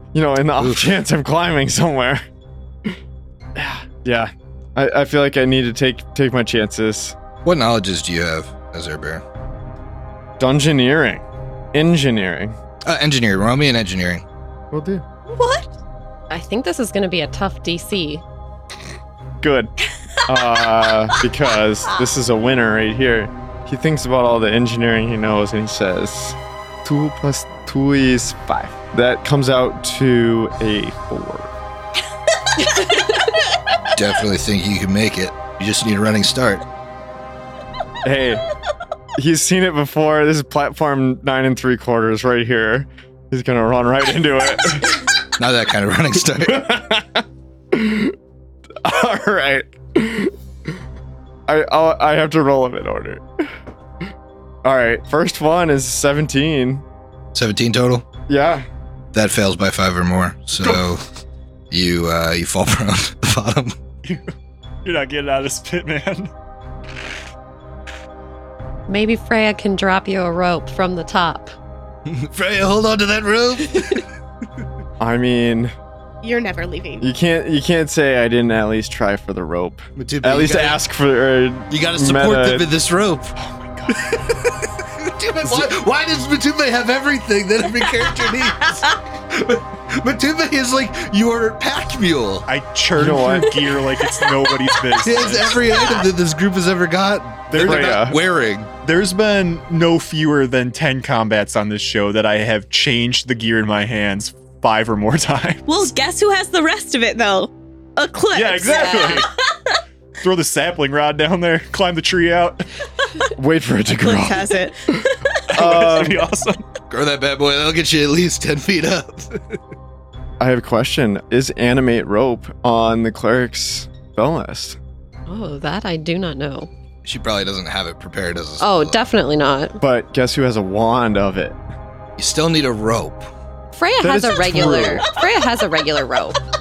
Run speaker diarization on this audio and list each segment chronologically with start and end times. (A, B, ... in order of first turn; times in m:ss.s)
0:00.1-0:02.2 A
0:00.6-0:00.9 B
0:03.6-0:07.1 A
0:07.4-0:09.2 B
0:10.4-0:12.6 A
0:12.8-0:14.2 B
0:14.7-0:15.0 A
0:15.3-0:15.7 C
0:16.3-0:18.2 D
0:19.4-0:19.7 A
0:20.2-0:31.5 A
0:33.9-0:36.6 B
0:38.0-0:38.4 A
0:39.2-0:45.0 A
0:45.3-0:46.7 B
0:46.4-0:48.1 A
0:48.8-0:50.3 A
0:51.5-0:53.2 A
0:54.6-0:56.8 A
0:57.3-0:58.0 B
0:58.3-0:58.6 A
0:59.1-1:01.0 B
1:01.7-1:03.8 B
1:04.0-1:04.3 E
1:04.8-1:06.3 E
1:08.9-1:11.5 D
1:12.0-1:14.0 B
1:15.0-1:15.7 A
1:16.2-1:17.0 C
1:17.0-1:22.7 A
1:20.0-1:20.8 B
1:21.7-1:23.3 B
1:23.4-1:24.1 E
1:23.9-1:32.4 B
1:32.5-1:35.6 E
1:33.0-1:33.6 A
1:35.0-1:38.7 B
1:37.5-1:38.1 E
1:37.6-1:38.2 A
1:38.8-1:45.6 E
1:45.7-1:49.4 C
1:48.3-1:49.3 E
1:48.7-1:49.2 D
1:50.2-1:52.6 E
1:53.4-1:55.0 A
1:54.0-1:55.4 C
1:55.5-1:56.6 E
1:55.5-1:56.2 A
1:56.9-1:59.6 B
2:00.4-2:04.8 A
2:05.3-2:06.7 D
2:07.0-2:09.0 B
2:08.6-2:09.8 D
2:09.8-2:11.6 A
2:12.2-2:13.3 B
2:13.7-2:16.4 D
2:14.0-2:15.0 A